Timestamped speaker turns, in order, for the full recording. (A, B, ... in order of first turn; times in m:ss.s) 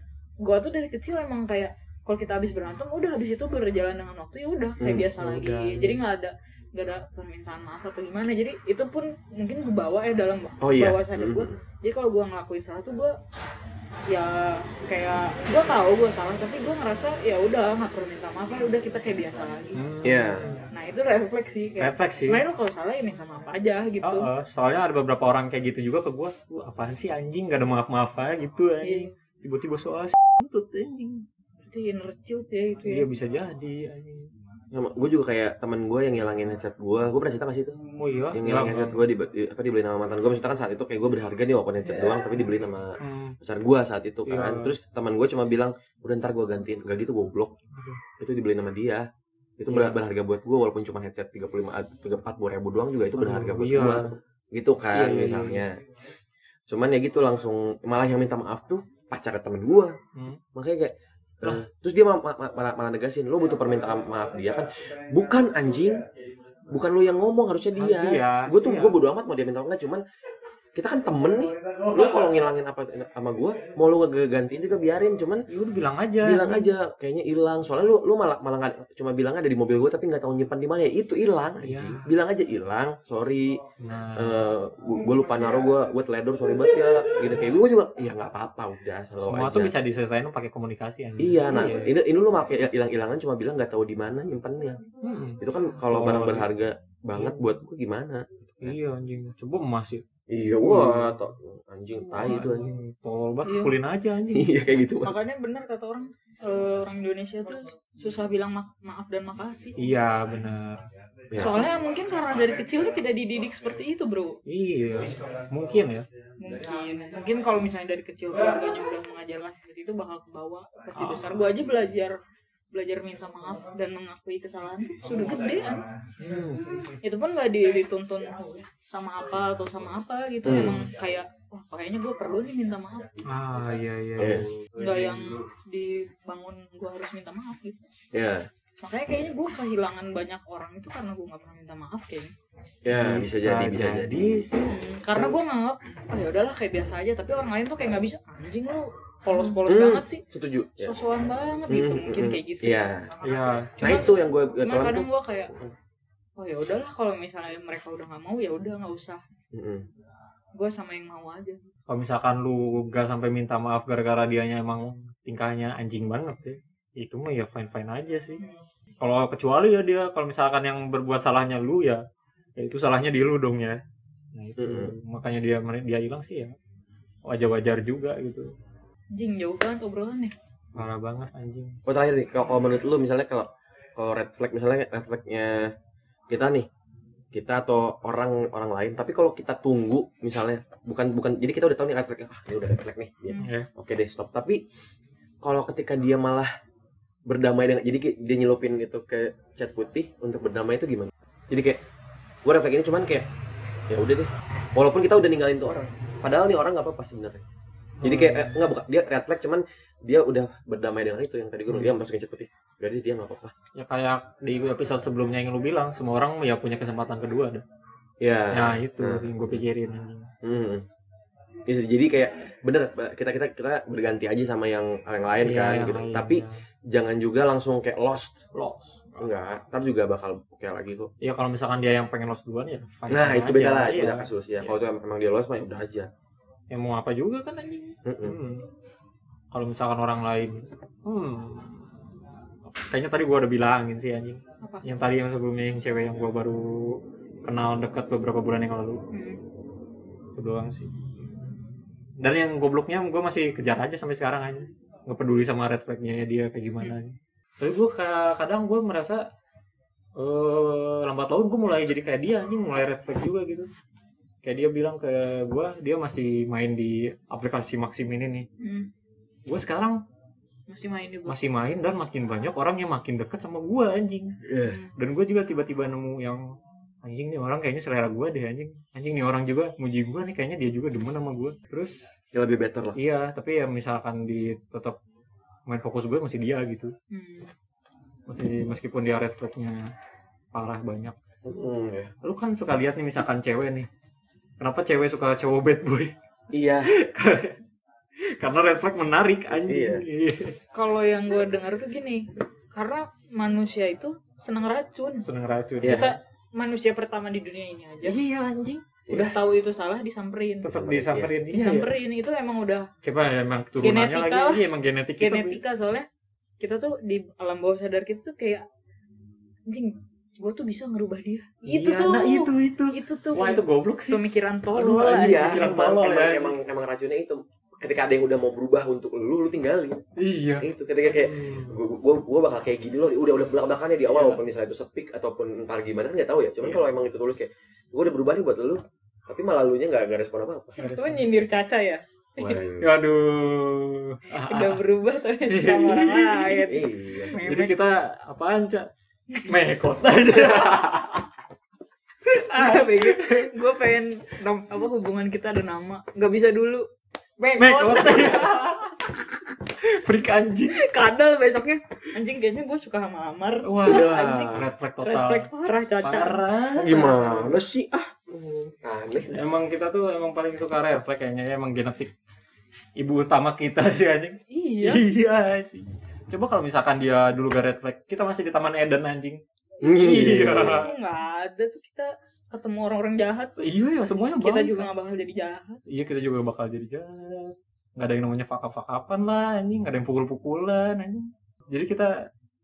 0:00.4-0:13.2 A
0:04.8-0:05.1 B
0:05.2-0:06.0 C
0:10.6-0:11.6 B
0:14.1-0:19.8 A
0:19.8-0:20.7 C
0:20.0-0:20.5 B
0:20.7-0:24.3 A
0:21.8-0:22.4 C
0:24.0-0:31.2 C
0:28.8-0:29.1 A
0:31.6-0:33.1 A
0:32.8-0:34.3 C
0:34.7-0:37.8 B
0:38.0-0:39.0 C
0:38.3-0:47.5 B
0:43.0-0:43.4 C
0:44.3-0:44.7 C
0:47.7-0:48.0 C
0:48.2-0:49.1 B
0:49.6-0:55.8 B
0:49.7-0:50.0 C
0:53.2-0:54.1 C
0:54.9-0:55.6 C
0:56.7-1:00.0 B
1:00.2-1:00.4 C
1:00.6-1:06.0 B
1:06.7-1:10.0 B
1:07.8-1:09.0 C
1:10.8-1:15.4 B
1:15.5-1:16.7 C
1:16.2-1:23.6 B
1:21.6-1:22.1 C
1:23.8-1:24.4 C
1:24.2-1:29.8 B
1:29.2-1:31.9 C
1:31.2-1:34.8 B
1:35.0-1:36.5 C
1:35.4-1:38.8 B
1:37.1-1:37.4 C
1:38.6-1:40.0 C
1:40.3-1:42.7 B
1:40.6-1:41.2 C
1:42.2-1:44.6 C
1:43.4-1:43.7 A
1:44.3-1:45.2 B
1:45.0-1:49.8 A
1:49.8-1:50.8 C
1:51.3-1:51.7 B
1:51.3-1:54.4 A
1:54.5-1:56.1 C
1:56.4-2:02.2 A
2:01.0-2:01.3 C
2:02.7-2:05.9 A
2:06.2-2:06.7 C
2:07.0-2:13.2 A
2:10.4-2:10.9 B
2:10.5-2:10.8 C
2:13.2-2:15.3 C
2:14.2-2:14.5 B
2:14.8-2:17.8 A
2:18.1-2:18.5 B
2:18.8-2:22.3 A
2:22.8-2:24.4 B
2:22.9-2:24.8 C
2:24.7-2:30.2 A
2:29.7-2:30.9 B
2:30.8-2:32.8 A
2:31.7-2:33.1 B
2:33.2-2:34.1 C
2:33.8-2:35.6 A
2:33.8-2:35.7 B
2:36.4-2:39.2 A
2:39.5-2:39.8 B
2:40.6-2:41.7 A
2:41.9-2:48.4 C
2:48.4-2:48.6 A
2:49.0-2:52.0 C
2:52.6-2:53.8 C
2:54.3-2:56.6 C
2:54.6-2:55.0 B
2:57.2-2:58.5 C
2:59.1-3:00.3 A
3:00.8-3:01.8 C
3:01.8-3:05.7 B
3:06.3-3:06.7 B
3:07.3-3:14.6 B
3:13.4-3:13.7 C
3:15.4-3:16.5 B
3:17.3-3:21.8 B
3:22.4-3:23.3 B
3:23.9-3:27.4 B
3:28.0-3:28.6 C
3:28.0-3:33.5 B
3:33.8-3:37.6 C
3:38.2-3:39.6 B
3:38.5-3:40.3 C
3:40.4-3:40.8 B
3:41.7-3:48.4 B
3:45.4-3:46.5 C
3:48.5-3:49.3 C
3:49.2-3:51.1 B
3:51.2-3:54.3 C
3:53.1-3:56.1 B
3:56.7-3:58.7 C
3:58.0-3:58.4 B
3:59.5-4:02.0 C
4:02.8-4:09.0 C
4:04.6-4:04.9 A
4:09.1-4:09.4 A
4:10.4-4:10.9 C
4:12.2-4:19.2 C
4:20.2-4:23.7 C
4:24.4-4:28.5 C
4:28.6-4:28.9 A
4:29.5-4:30.0 C
4:30.7-4:31.4 A
4:31.3-4:34.4 C
4:34.4-4:34.8 B
4:34.6-4:34.9 A
4:35.0-4:36.4 C
4:37.0-4:42.0 C
4:42.3-4:43.0 B
4:43.0-4:45.0 C
4:45.7-4:46.9 C
4:47.1-4:47.5 A
4:48.3-4:49.9 C
4:50.5-4:51.2 C
4:51.4-4:52.1 B
4:52.2-4:53.9 C
4:54.6-4:56.1 C
4:56.5-4:56.9 B
4:56.9-4:57.6 C
4:58.4-5:00.6 C
4:59.5-5:00.0 B
5:00.7-5:05.3 A
5:05.2-5:06.2 C
5:05.8-5:06.1 B
5:05.8-5:08.2 A
5:08.0-5:08.8 C
5:09.1-5:09.4 B
5:09.1-5:10.7 A
5:10.6-5:11.9 C
5:10.7-5:11.3 B
5:11.5-5:12.9 A
5:13.0-5:15.6 C
5:13.8-5:14.6 A
5:15.2-5:16.1 A
5:16.6-5:18.7 A
5:19.7-5:25.8 A
5:21.7-5:24.2 C
5:24.8-5:26.6 C
5:24.8-5:30.0 B
5:30.2-5:31.8 C
5:30.6-5:40.8 B
5:34.1-5:34.4 C
5:40.8-5:42.6 A
5:40.8-5:41.3 C
5:42.4-5:42.9 B
5:42.8-5:44.8 C
5:44.4-5:47.8 A
5:45.5-5:46.7 C
5:46.7-5:47.4 B
5:47.4-5:48.9 C
5:49.4-5:51.2 C
5:52.3-5:53.5 C
5:52.3-5:56.9 A
5:57.4-5:58.8 A
5:57.6-5:59.1 C
5:59.6-6:00.8 C
6:00.7-6:06.4 A
6:03.6-6:05.5 C
6:03.8-6:04.7 B
6:06.0-6:07.4 C
6:06.8-6:09.4 B
6:09.3-6:12.1 C
6:13.0-6:20.9 C
6:14.5-6:15.0 A
6:19.8-6:20.9 B
6:20.5-6:23.6 A
6:23.6-6:24.9 C
6:24.4-6:25.8 A
6:25.9-6:32.3 C